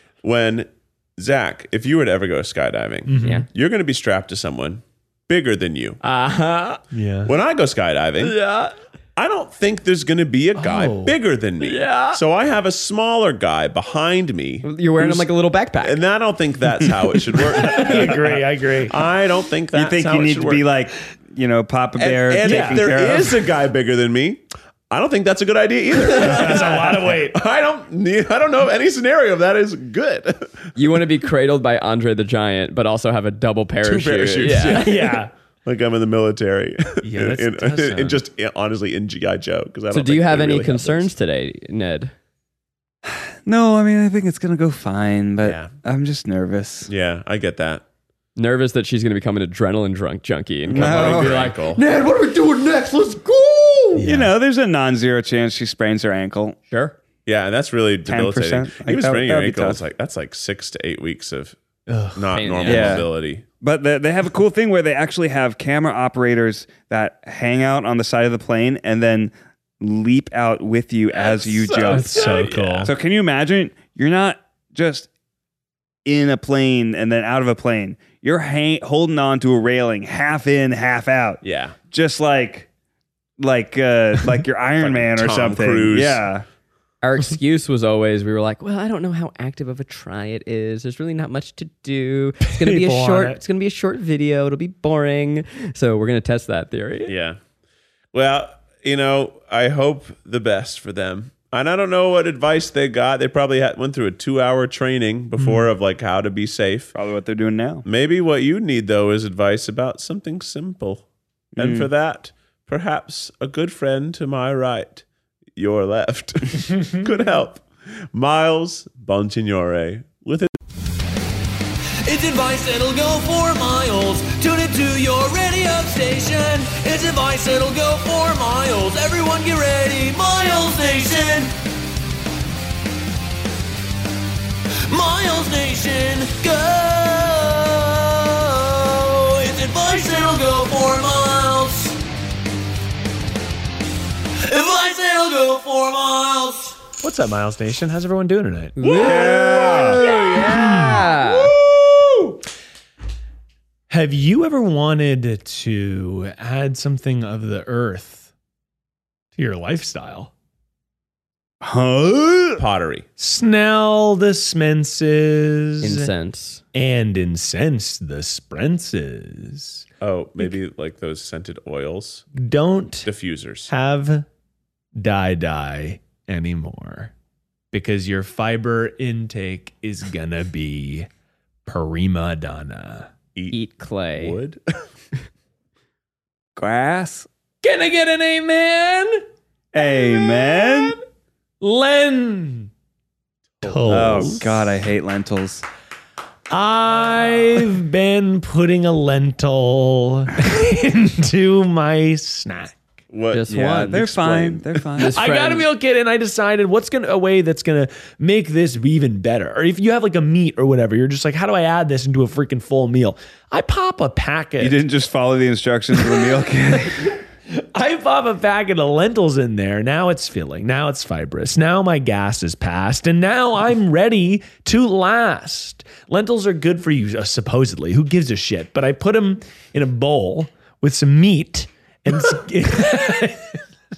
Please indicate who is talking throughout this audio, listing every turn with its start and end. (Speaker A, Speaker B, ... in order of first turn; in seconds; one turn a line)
Speaker A: 0.2-6.0
Speaker B: 3.0-3.5
Speaker C: 6.0-6.8
Speaker B: 6.9-7.3
Speaker A: 7.2-8.4
Speaker C: 8.2-8.7
Speaker A: 9.2-15.3
Speaker B: 10.6-11.2
Speaker C: 11.6-12.2
Speaker C: 14.6-16.0
Speaker A: 15.8-20.7
Speaker B: 17.6-18.9
Speaker D: 19.7-23.4
Speaker A: 22.0-30.7
Speaker B: 22.4-22.9
Speaker B: 26.1-27.4
Speaker C: 26.2-26.5
Speaker C: 30.8-35.1
Speaker A: 33.8-41.1
Speaker B: 34.5-35.3
Speaker B: 37.0-38.2
Speaker C: 39.9-42.1
Speaker D: 43.0-46.9
Speaker A: 45.4-45.7
Speaker A: 46.9-47.8
Speaker C: 48.4-54.0
Speaker D: 50.7-51.5
Speaker A: 50.7-51.8
Speaker B: 54.0-54.3
Speaker D: 54.0-56.6
Speaker C: 56.7-57.0
Speaker A: 57.3-61.5
Speaker D: 58.1-59.8
Speaker B: 61.9-62.2
Speaker A: 62.1-63.4
Speaker C: 62.3-63.0
Speaker D: 62.7-63.1
Speaker D: 63.6-75.1
Speaker C: 71.4-72.0
Speaker A: 71.7-72.9
Speaker B: 71.8-72.9
Speaker D: 76.0-82.7
Speaker A: 81.4-81.8
Speaker D: 83.4-86.5
Speaker A: 84.8-86.3
Speaker C: 87.0-97.1
Speaker B: 92.5-93.4
Speaker A: 97.1-97.4
Speaker A: 98.1-107.0
Speaker B: 105.4-105.7
Speaker D: 107.0-107.8
Speaker A: 107.8-111.0
Speaker D: 111.6-111.9
Speaker A: 111.6-115.0
Speaker A: 115.5-120.5
Speaker E: 122.0-131.5
Speaker E: 134.9-142.0
Speaker E: 144.4-146.8
Speaker B: 147.0-149.4
Speaker C: 148.8-151.5
Speaker D: 148.8-150.0
Speaker B: 150.0-152.3
Speaker B: 153.9-158.3
Speaker B: 159.3-160.3
Speaker D: 161.6-162.6
Speaker A: 162.6-163.1
Speaker B: 163.2-166.1
Speaker C: 165.8-166.6
Speaker B: 166.7-169.8
Speaker A: 170.0-172.3
Speaker B: 172.3-173.1
Speaker A: 173.1-173.7
Speaker B: 173.7-174.3
Speaker B: 175.0-177.1
Speaker B: 177.7-181.1
Speaker B: 181.7-183.1
Speaker C: 183.5-184.4
Speaker A: 184.2-184.6
Speaker D: 186.6-187.3
Speaker B: 187.6-189.2
Speaker D: 189.7-191.0
Speaker B: 189.8-190.9
Speaker B: 191.6-192.7
Speaker A: 193.6-194.5
Speaker B: 193.6-194.5
Speaker D: 193.9-195.6
Speaker B: 196.5-202.8
Speaker A: 203.1-204.8
Speaker C: 203.3-204.1
Speaker D: 203.5-205.2
Speaker C: 205.0-205.7
Speaker B: 205.0-214.8
Speaker D: 214.6-217.2
Speaker B: 216.0-216.3
Speaker B: 217.5-233.6